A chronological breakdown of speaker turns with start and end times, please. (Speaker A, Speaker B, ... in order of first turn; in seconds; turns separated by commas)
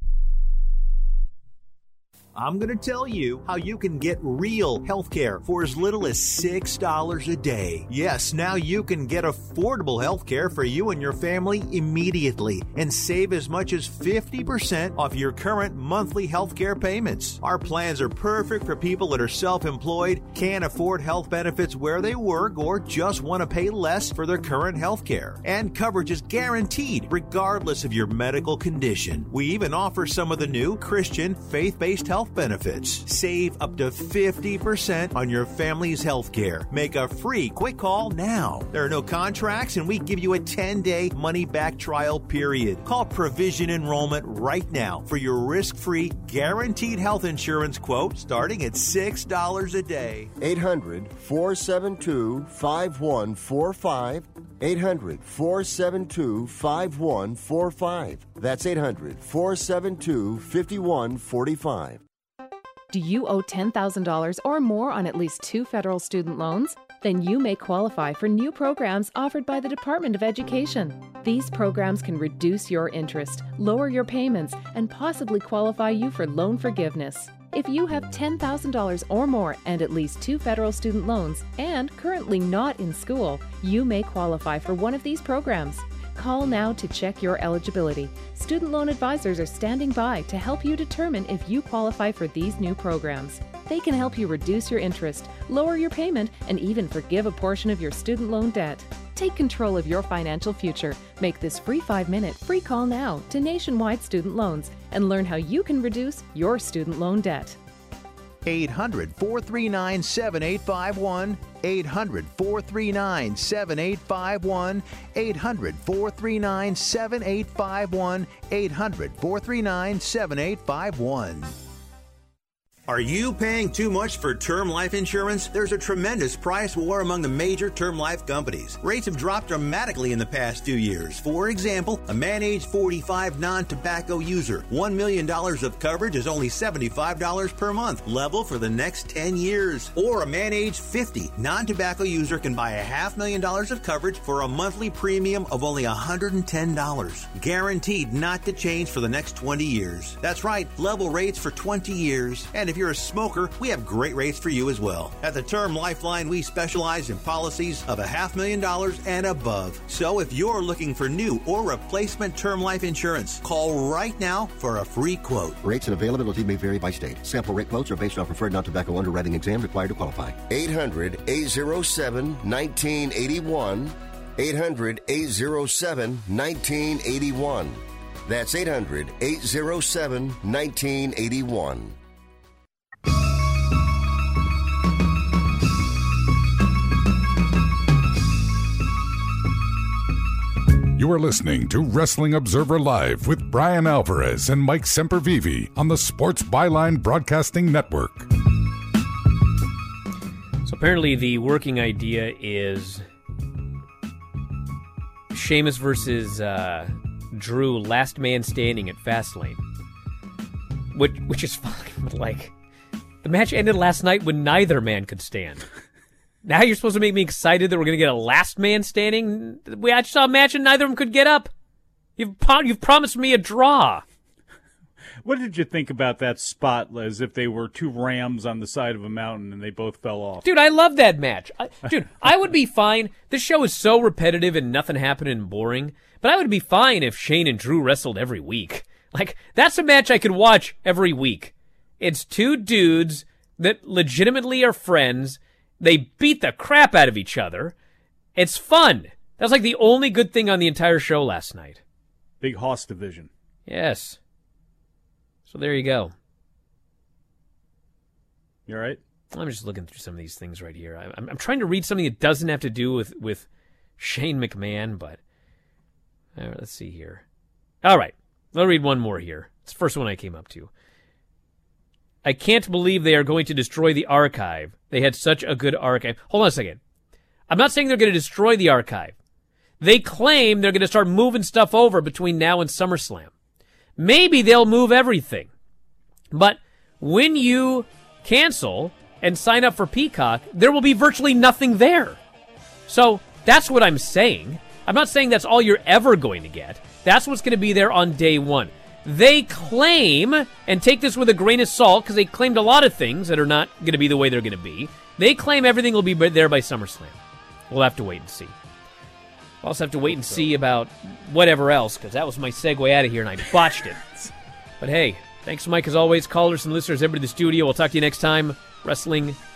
Speaker A: 2.3-50.3, Speaker B: 50.4-62.0, Speaker C: 62.9-107.6, Speaker A: 108.4-121.5, Speaker A: 122.9-165.6, Speaker B: 165.6-182.0, Speaker D: 190.9-198.3, Speaker E: 200.6-203.1, Speaker E: 205.3-209.6, Speaker E: 210.9-212.5, Speaker E: 213.2-215.6, Speaker E: 216.4-221.5, Speaker E: 222.2-224.0, Speaker F: 225.2-230.4, Speaker E: 230.4-247.7, Speaker E: 248.4-251.8, Speaker F: 252.4-253.3, Speaker E: 253.7-254.2, Speaker E: 255.5-256.1, Speaker F: 258.7-259.0, Speaker E: 259.3-263.5, Speaker E: 264.0-265.2, Speaker E: 266.4-267.2, Speaker E: 267.8-270.7, Speaker E: 272.2-276.8, Speaker E: 277.5-279.1, Speaker E: 279.8-283.3, Speaker E: 284.0-285.5, Speaker E: 286.3-292.2, Speaker E: 292.9-307.2, Speaker E: 307.7-308.5, Speaker E: 309.6-314.0, Speaker F: 310.1-310.5, Speaker E: 314.8-319.4